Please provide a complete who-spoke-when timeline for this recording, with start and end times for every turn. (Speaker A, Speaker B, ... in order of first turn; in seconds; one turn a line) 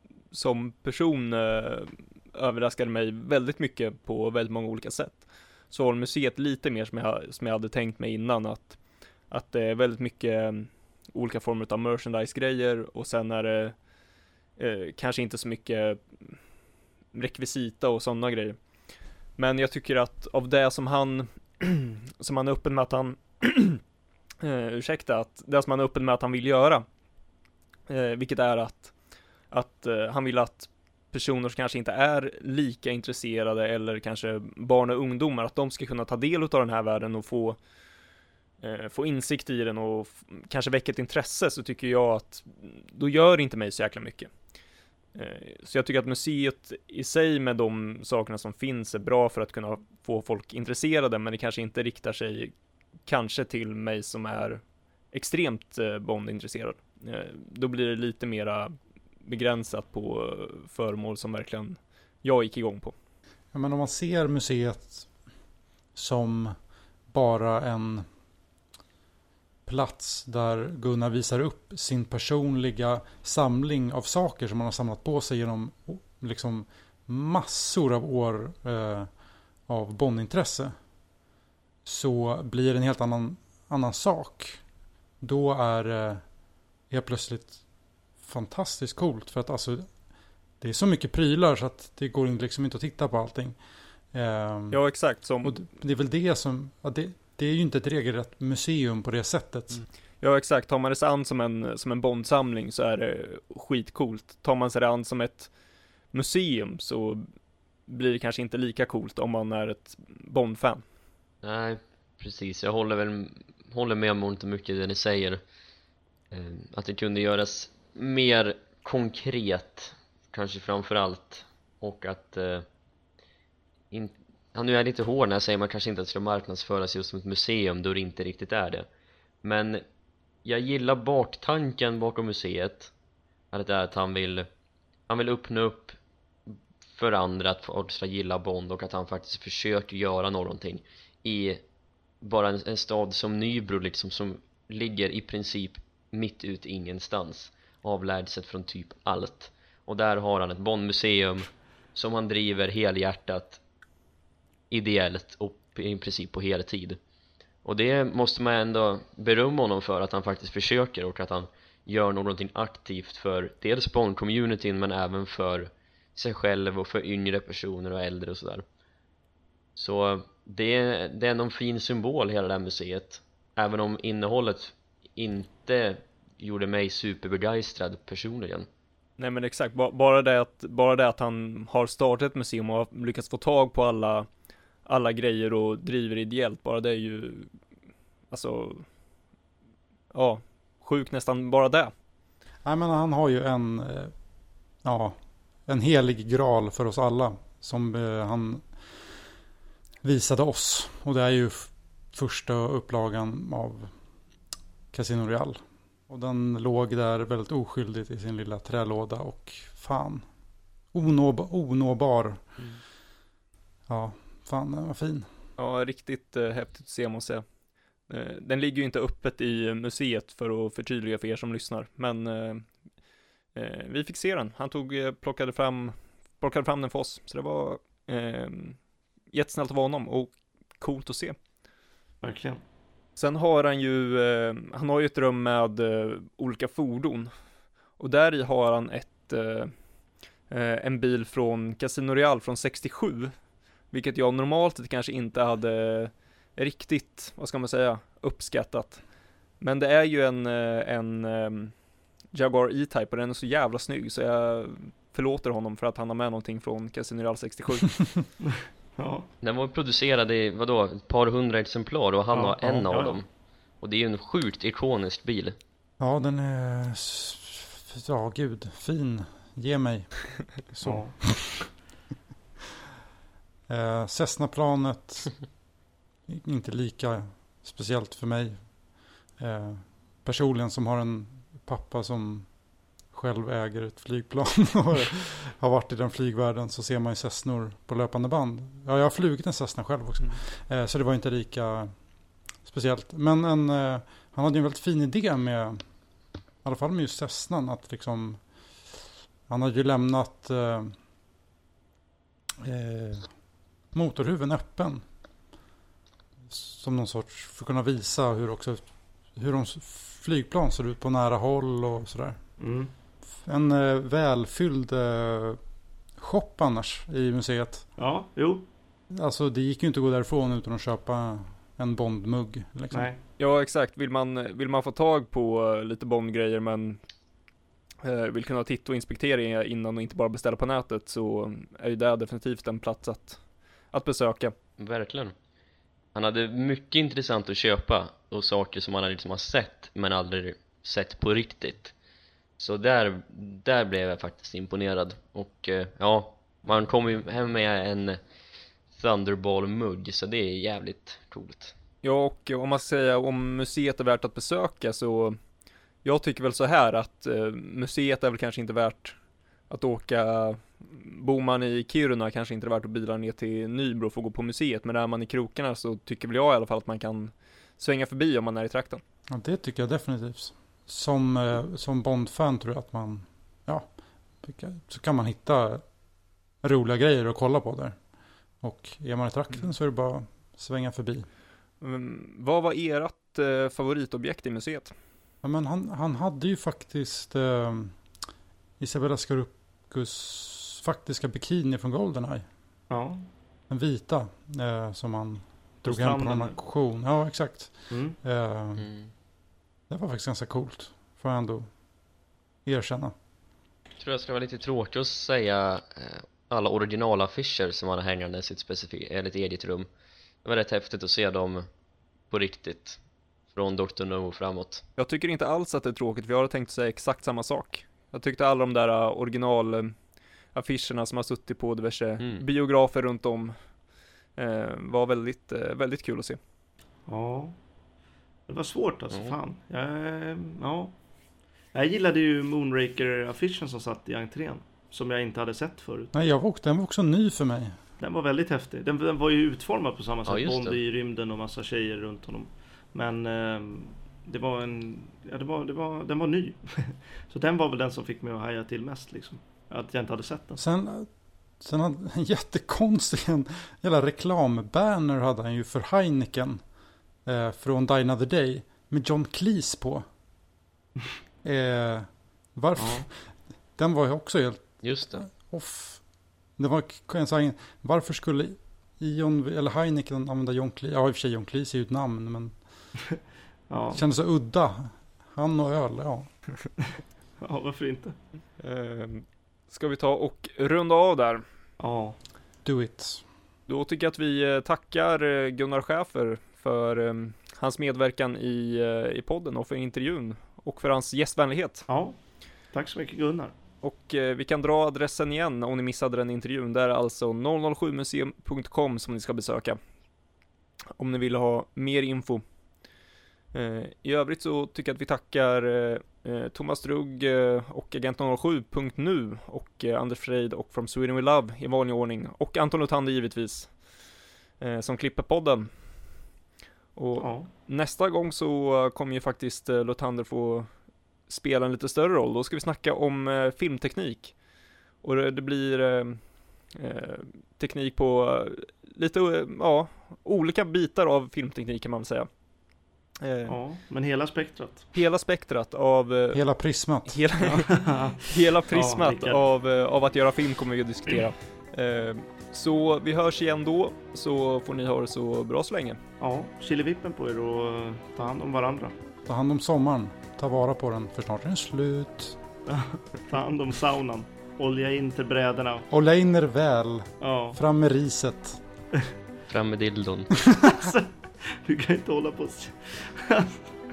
Speaker A: 0.3-13.8
Speaker A: 14.6-16.4
Speaker A: 17.1-18.6
Speaker A: 19.4-23.8
Speaker A: 24.4-26.8
Speaker A: 27.9-28.9
Speaker A: 29.5-37.6
Speaker A: 38.6-44.3
Speaker A: 45.1-52.5
Speaker A: 53.0-62.9
Speaker B: 63.5-65.1
Speaker B: 65.9-66.5
Speaker B: 67.1-68.1
Speaker B: 69.6-80.8
Speaker B: 81.8-84.6
Speaker B: 85.2-86.3
Speaker B: 86.9-87.6
Speaker B: 88.2-90.0
Speaker B: 90.6-94.9
Speaker A: 94.7-95.6
Speaker B: 95.4-99.8
Speaker A: 100.2-105.5
Speaker A: 106.1-107.3
Speaker A: 107.9-110.8
Speaker C: 111.4-115.4
Speaker C: 116.3-122.6
Speaker C: 123.9-128.9
Speaker C: 129.4-129.8
Speaker C: 130.4-132.9
Speaker C: 133.5-134.5
Speaker C: 135.1-136.0
Speaker C: 136.9-141.6
Speaker C: 142.2-153.6
Speaker C: 154.7-157.0
Speaker C: 157.6-168.6
Speaker C: 169.8-178.7
Speaker A: 179.2-184.3
Speaker A: 184.8-187.5
Speaker A: 188.3-188.9
Speaker A: 190.1-191.9
Speaker B: 192.6-194.1
Speaker B: 194.8-199.1
Speaker B: 200.0-203.9
Speaker B: 204.9-210.3
Speaker B: 210.9-212.4
Speaker B: 213.9-215.3
Speaker A: 215.6-217.4
Speaker A: 218.1-222.7
Speaker A: 223.5-228.8
Speaker A: 229.3-231.4
Speaker D: 232.2-232.6
Speaker A: 233.2-237.3
Speaker A: 238.0-239.7
Speaker A: 240.5-243.3
Speaker A: 243.9-249.0
Speaker A: 249.6-251.7
Speaker A: 252.3-258.1
Speaker D: 258.9-259.3
Speaker C: 259.4-263.2
Speaker D: 262.3-263.2
Speaker C: 263.8-265.6
Speaker B: 266.0-271.6
Speaker D: 270.8-271.7
Speaker B: 273.7-275.5
Speaker B: 276.3-292.0
Speaker B: 292.6-295.9
Speaker B: 296.6-300.9
Speaker B: 302.6-303.4
Speaker B: 303.9-305.1
Speaker B: 306.5-312.4
Speaker D: 312.6-312.9
Speaker B: 313.4-315.6
Speaker B: 316.1-317.9
Speaker D: 317.9-318.6
Speaker B: 319.1-323.1
Speaker D: 322.9-323.2
Speaker A: 323.4-327.0
Speaker A: 328.0-334.5
Speaker C: 334.8-335.3
Speaker C: 336.1-341.9
Speaker C: 342.6-348.2
Speaker C: 348.9-351.7
Speaker A: 352.0-355.4
Speaker A: 356.0-359.2
Speaker A: 359.7-369.0
Speaker B: 369.3-375.9
Speaker B: 376.6-378.1
Speaker B: 378.6-381.3
Speaker A: 381.8-384.9
Speaker B: 385.4-388.2
Speaker B: 388.8-392.5
Speaker D: 392.9-393.3
Speaker B: 393.7-398.9
Speaker D: 395.9-396.6
Speaker D: 397.9-398.2
Speaker C: 398.8-399.1
Speaker B: 399.9-401.8
Speaker B: 402.6-403.1
Speaker C: 404.0-409.9
Speaker C: 410.4-411.6
Speaker C: 412.3-413.0
Speaker C: 413.5-414.8
Speaker A: 415.0-420.0
Speaker A: 420.5-423.6
Speaker C: 422.2-422.4
Speaker A: 424.4-426.4
Speaker D: 427.1-427.5
Speaker D: 428.5-430.9
Speaker C: 429.1-429.4
Speaker D: 431.7-436.1
Speaker B: 436.1-437.8
Speaker D: 438.0-450.6
Speaker C: 440.2-440.8
Speaker B: 450.6-456.6
Speaker B: 457.2-460.1
Speaker B: 461.4-472.9
Speaker D: 462.8-463.0
Speaker C: 464.8-465.2
Speaker D: 473.7-474.0
Speaker B: 473.9-476.4
Speaker D: 477.4-478.1
Speaker A: 478.6-481.4
Speaker D: 481.8-482.2
Speaker B: 482.6-483.2
Speaker A: 483.7-491.9
Speaker D: 491.9-492.2
Speaker D: 492.7-493.5
Speaker A: 493.8-499.8
Speaker A: 501.0-502.4
Speaker A: 503.5-513.8
Speaker A: 514.6-515.7
Speaker A: 516.9-524.4
Speaker D: 517.2-517.5
Speaker A: 525.0-532.3
Speaker A: 533.2-533.6
Speaker D: 533.5-534.9
Speaker A: 534.9-536.4
Speaker B: 536.3-537.2
Speaker A: 537.0-546.0
Speaker D: 537.4-539.4
Speaker D: 546.2-548.9
Speaker B: 549.2-552.4
Speaker D: 552.7-555.9
Speaker B: 555.9-558.6
Speaker D: 557.2-557.6
Speaker C: 559.5-560.3
Speaker B: 560.4-560.7
Speaker D: 560.6-563.6